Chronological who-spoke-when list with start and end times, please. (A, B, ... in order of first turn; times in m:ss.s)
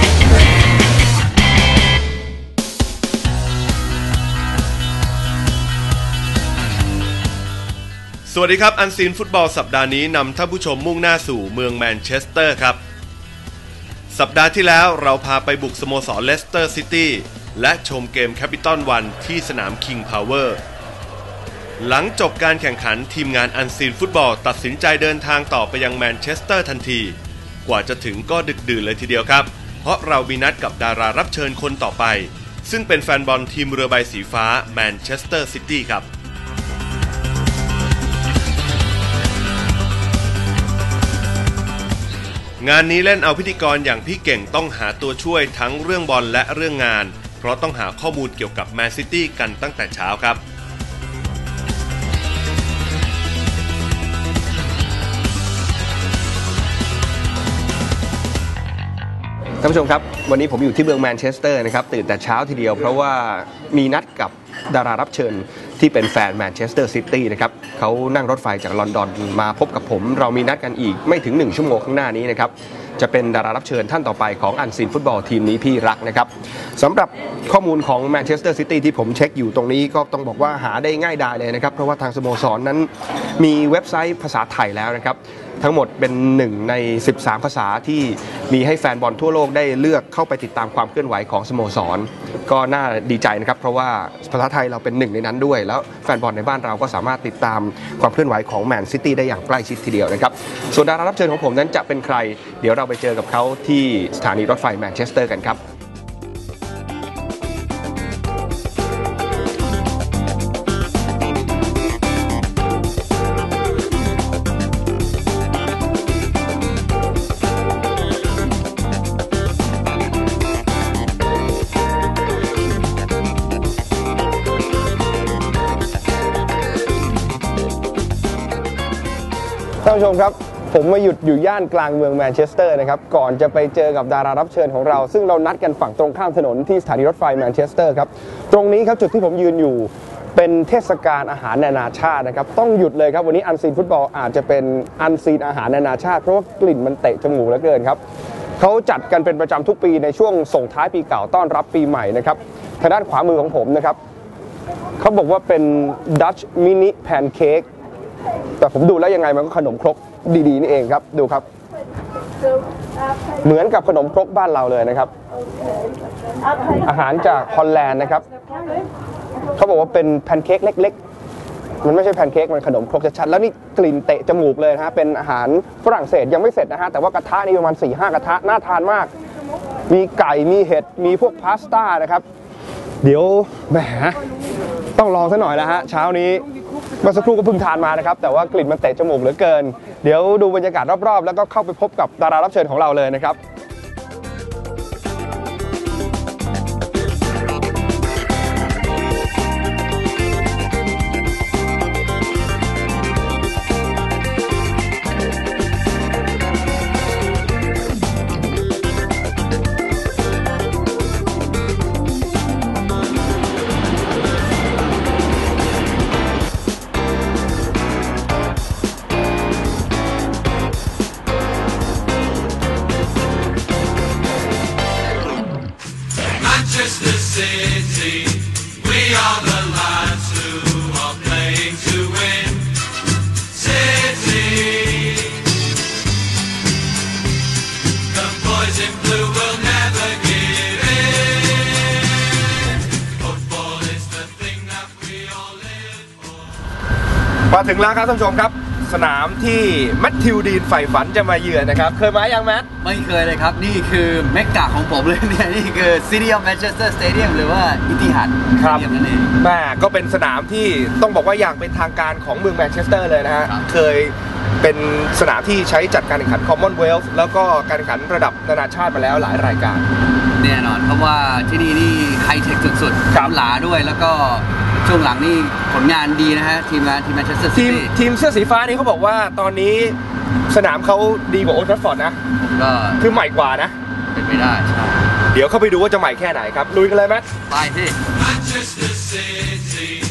0:08.3-0:12.8 A
0:14.1-0:20.6 A
0:21.8-0:36.1 A
0:42.6-0:50.4 A
0:59.6-1:45.6 B
2:09.8-2:28.0 B
2:28.6-2:34.0 B
2:35.0-2:37.7 B
2:38.6-2:41.5 B
2:43.4-2:45.1 B
2:46.8-2:48.3 B
2:49.6-2:51.0 B
2:51.8-2:59.1 B
2:59.9-3:02.2 B
3:03.0-3:04.2 B
3:05.0-3:06.4 B
3:07.0-3:13.4 B
3:47.2-3:48.1 A
3:49.1-3:49.7 A
3:51.4-3:52.4 A
4:04.6-4:05.6 C
4:07.5-4:12.7 B
4:12.8-4:19.3 C
4:18.6-4:29.8 B
4:30.4-4:37.9 C
4:37.5-4:40.0 B
4:40.5-4:42.2 B
4:42.4-4:43.1 C
4:43.0-4:43.8 B
4:44.1-4:45.1 C
4:45.3-4:47.3 B
4:47.5-4:49.4 C